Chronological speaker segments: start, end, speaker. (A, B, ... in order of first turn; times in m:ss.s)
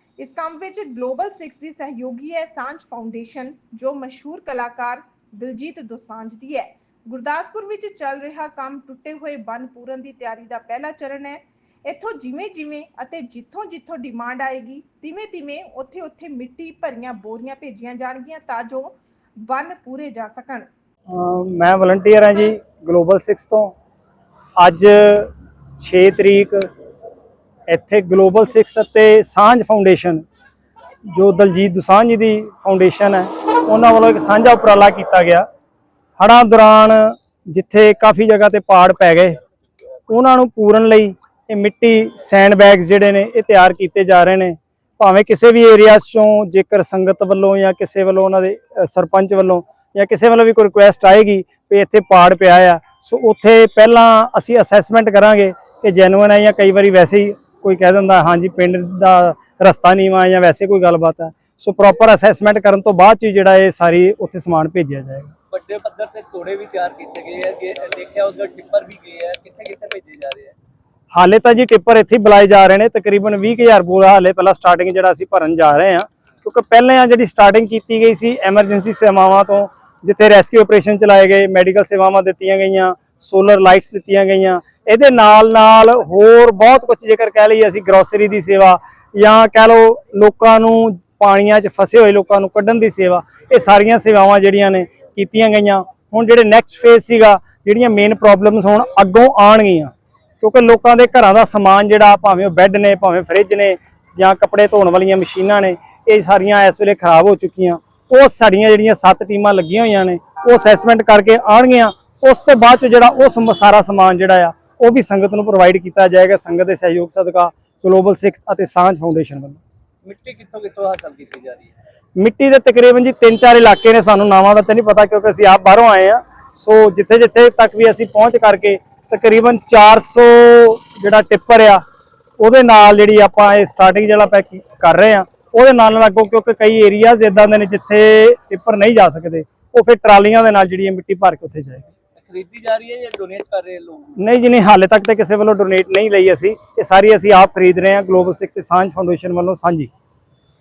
0:00.2-0:20.7 A
0:21.1-0:23.7 B
0:24.6-0:26.7 B
0:27.7-0:30.2 B
0:31.1-0:35.4 B
0:36.2-0:39.4 B
0:40.1-1:05.3 B
1:05.5-1:10.6 C
1:11.1-1:59.6 B
2:00.0-2:01.7 C
2:02.2-2:11.8 B
2:12.4-2:21.9 B
2:22.2-2:24.1 C
2:24.2-2:29.9 B